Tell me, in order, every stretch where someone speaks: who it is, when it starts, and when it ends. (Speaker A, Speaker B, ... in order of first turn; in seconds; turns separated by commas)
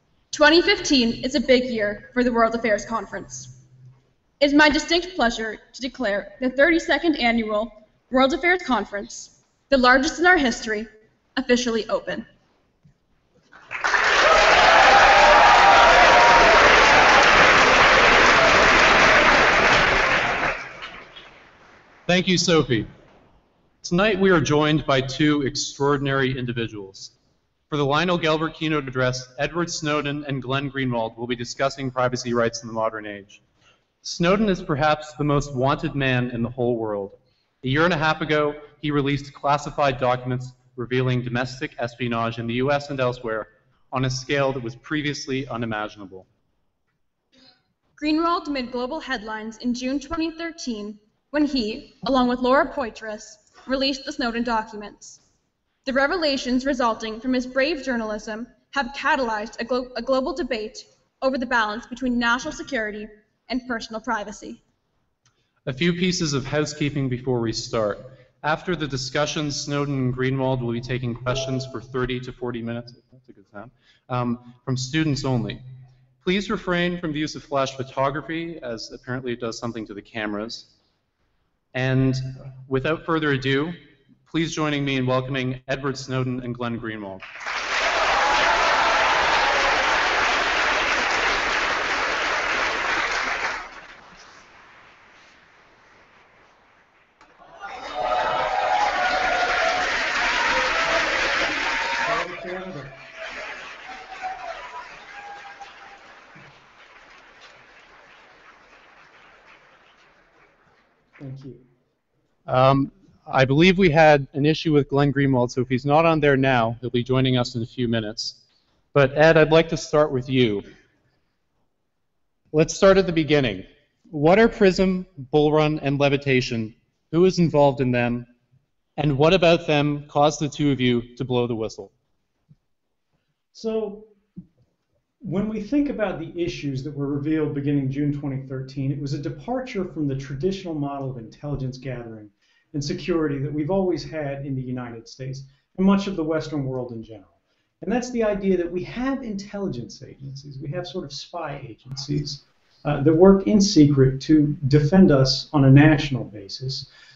Speaker A: 0.3-3.5, Speaker A: 4.4-12.2, Speaker B: 22.1-22.9, Speaker B: 23.8-27.1, Speaker B: 27.7-33.4, Speaker B: 34.0-46.3, Speaker A: 48.0-55.2, Speaker A: 55.9-64.6, Speaker B: 65.7-75.6, Speaker B: 76.2-80.7, Speaker B: 81.7-87.2, Speaker C: 102.0-103.0, Speaker C: 111.2-111.7, Speaker B: 112.5-118.4, Speaker B: 118.9-120.7, Speaker B: 122.5-128.3, Speaker B: 129.0-131.9, Speaker C: 133.5-134.1, Speaker C: 135.2-156.9